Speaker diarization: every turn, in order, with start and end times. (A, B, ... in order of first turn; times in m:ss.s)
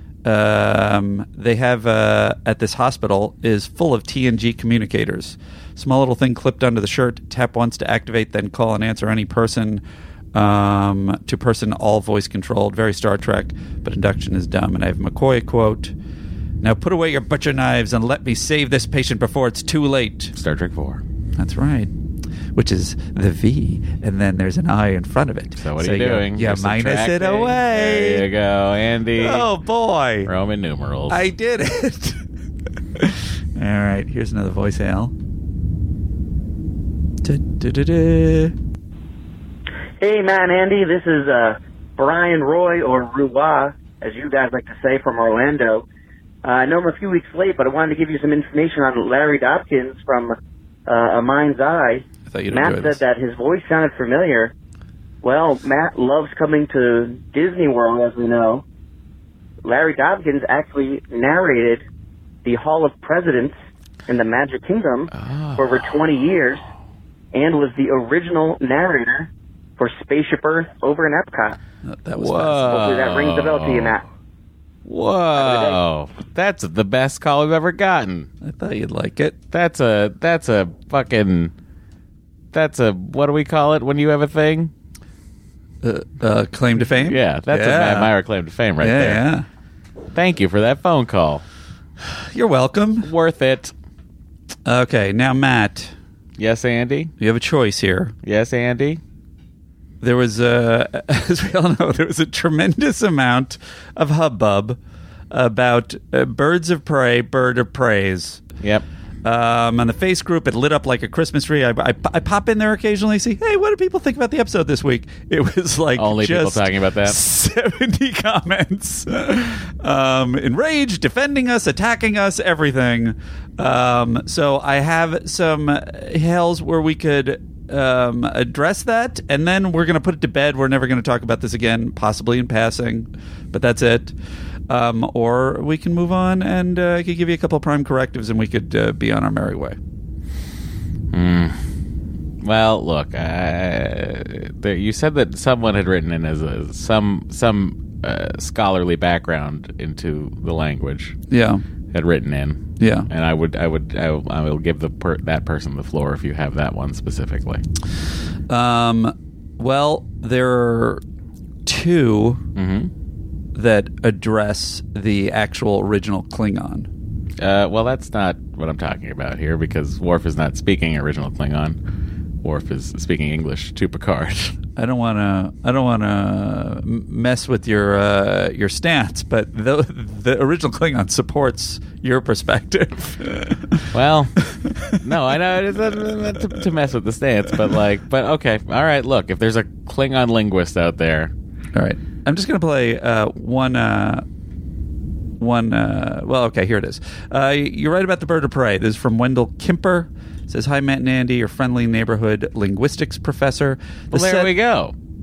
0:00.2-0:09.8 A
0:10.3-0:15.9 A
0:16.6-0:20.3 A
0:20.4-0:21.0 B
0:21.4-0:21.9 A
0:22.6-0:28.3 A
0:25.6-0:29.5 B
0:29.2-0:30.3 A
0:30.2-0:31.2 B
0:31.1-0:32.2 A
0:33.0-0:35.1 A
0:37.2-0:38.6 A
0:40.0-0:45.8 C
0:46.4-0:50.4 C
0:50.9-0:54.5 C
0:52.3-0:53.0 A
0:55.2-0:58.6 C
0:59.6-1:01.9 C
1:02.4-1:03.6 C
1:04.1-1:06.6 C
1:05.1-1:05.8 B
1:07.3-1:11.6 C
1:11.8-1:12.9 A
1:12.2-1:14.0 B
1:12.6-1:14.0 C
1:14.8-1:18.3 B
1:15.4-1:15.8 C
1:18.4-1:19.4 A
1:19.5-1:21.5 B
1:22.5-1:24.7 B
1:25.8-1:28.1 A
1:27.0-1:29.2 B
1:28.8-1:29.4 A
1:30.1-1:31.4 B
1:32.2-1:33.1 A
1:33.0-1:33.7 B
1:34.6-1:36.0 A
1:36.4-1:37.1 B
1:37.2-1:38.1 A
1:38.2-1:39.0 B
1:40.0-1:44.8 A
1:45.3-1:48.4 A
1:49.2-2:14.1 A
1:56.0-1:57.2 B
2:14.7-2:19.8 A
2:21.1-2:21.6 B
2:22.4-2:31.2 B
2:31.3-2:31.6 A
2:31.9-2:37.6 B
2:32.8-2:33.1 A
2:38.5-2:41.0 A
2:41.6-2:42.4 A
2:42.6-2:42.9 B
2:43.5-2:46.9 A
2:47.4-2:51.8 B
2:52.4-2:54.6 B
2:54.8-3:03.9 A
3:03.9-3:04.4 B
3:04.5-3:05.0 A
3:05.0-3:11.3 B
3:11.8-3:14.2 A
3:15.4-3:24.5 A
3:24.1-3:24.9 B